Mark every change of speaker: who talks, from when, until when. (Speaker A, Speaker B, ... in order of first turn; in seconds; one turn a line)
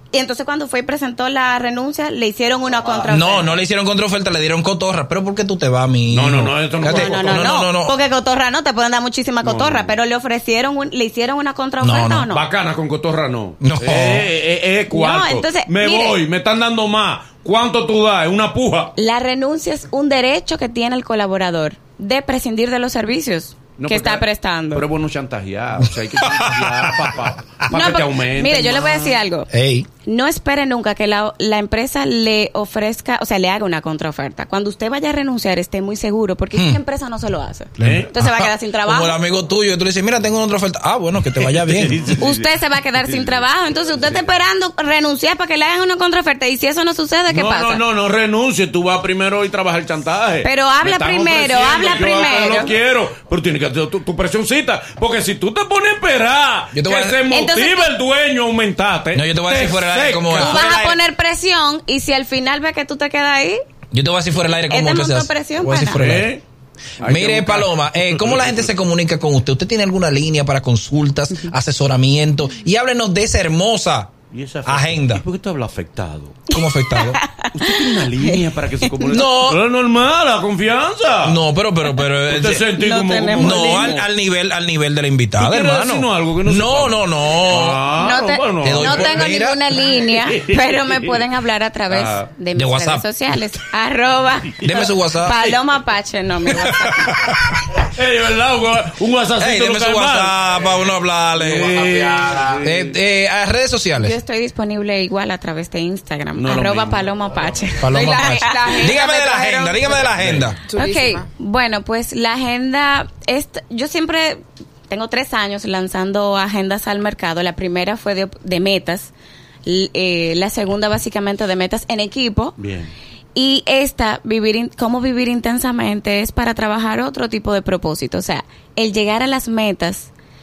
Speaker A: 0.1-3.5
Speaker B: 3.0-8.0
Speaker C: 6.1-7.5
Speaker A: 6.8-12.4
Speaker C: 9.4-10.0
Speaker B: 11.8-12.3
Speaker C: 12.3-18.9
Speaker B: 13.6-14.3
Speaker A: 14.9-16.2
Speaker A: 19.0-24.9
Speaker C: 23.8-29.2
Speaker B: 26.4-26.7
Speaker A: 27.7-29.5
Speaker B: 29.5-29.9
Speaker A: 30.0-39.2
Speaker B: 36.5-36.8
Speaker B: 37.8-42.0
Speaker C: 37.8-38.1
Speaker C: 41.3-44.3
Speaker A: 42.2-47.8
Speaker C: 47.3-60.7
Speaker A: 50.4-52.7
Speaker B: 56.7-57.2
Speaker A: 57.3-57.9
Speaker B: 59.1-61.0
Speaker A: 60.4-63.6
Speaker B: 63.9-66.3
Speaker A: 64.7-66.0
Speaker C: 65.9-66.4
Speaker C: 67.0-68.8
Speaker B: 67.0-74.1
Speaker C: 74.3-76.4
Speaker B: 74.6-75.2
Speaker B: 76.5-77.2
Speaker A: 76.5-77.5
Speaker C: 77.5-81.4
Speaker B: 79.1-79.6
Speaker B: 81.2-82.7
Speaker C: 82.2-84.1
Speaker A: 82.8-84.0
Speaker B: 83.4-87.8
Speaker C: 85.4-91.2
Speaker A: 87.9-97.2
Speaker B: 88.6-89.6
Speaker C: 91.9-92.2
Speaker B: 92.5-93.0
Speaker B: 94.6-95.4
Speaker C: 97.8-100.7
Speaker B: 99.4-104.2
Speaker C: 101.3-102.9
Speaker A: 104.0-109.1
Speaker C: 106.3-107.5
Speaker B: 107.8-110.6
Speaker C: 110.2-110.5
Speaker A: 110.8-119.1
Speaker A: 119.7-122.6
Speaker C: 122.6-122.9
Speaker A: 123.3-130.1